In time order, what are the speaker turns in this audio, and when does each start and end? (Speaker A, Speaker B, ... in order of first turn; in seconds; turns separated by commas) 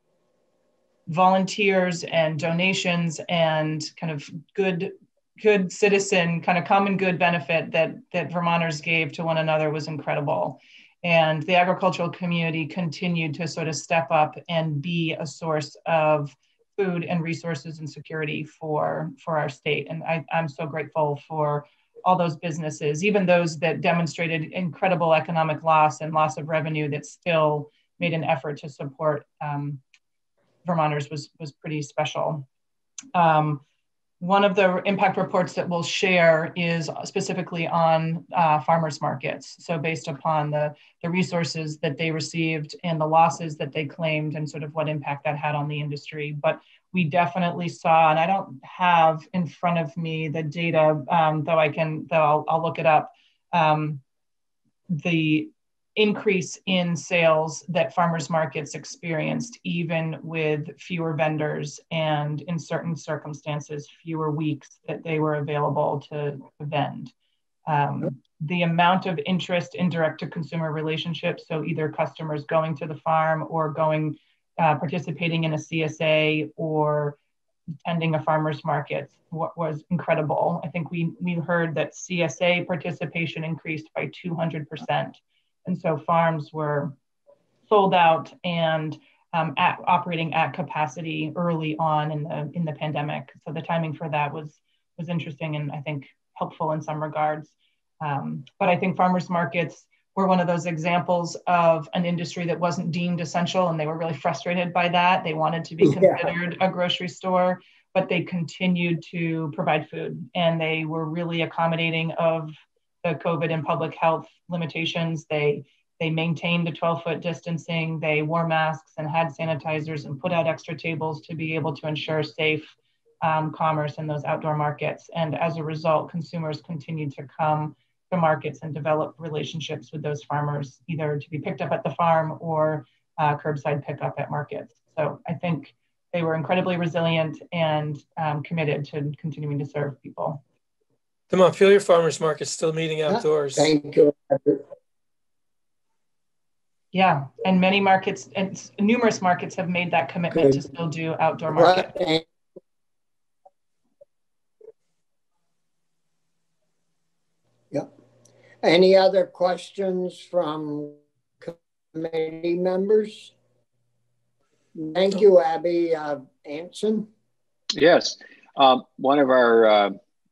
Speaker A: 1.1-29.8, Speaker A: 30.6-32.5, Speaker A: 33.1-33.6, Speaker A: 34.2-54.0, Speaker A: 54.9-67.1, Speaker A: 67.7-77.2, Speaker A: 77.8-87.0, Speaker A: 87.7-140.4, Speaker B: 105.8-106.2, Speaker C: 141.3-143.7, Speaker B: 143.1-144.6, Speaker A: 146.9-151.9, Speaker B: 150.3-150.6, Speaker B: 151.5-152.2, Speaker B: 158.6-163.3, Speaker B: 164.8-167.1, Speaker D: 167.8-170.0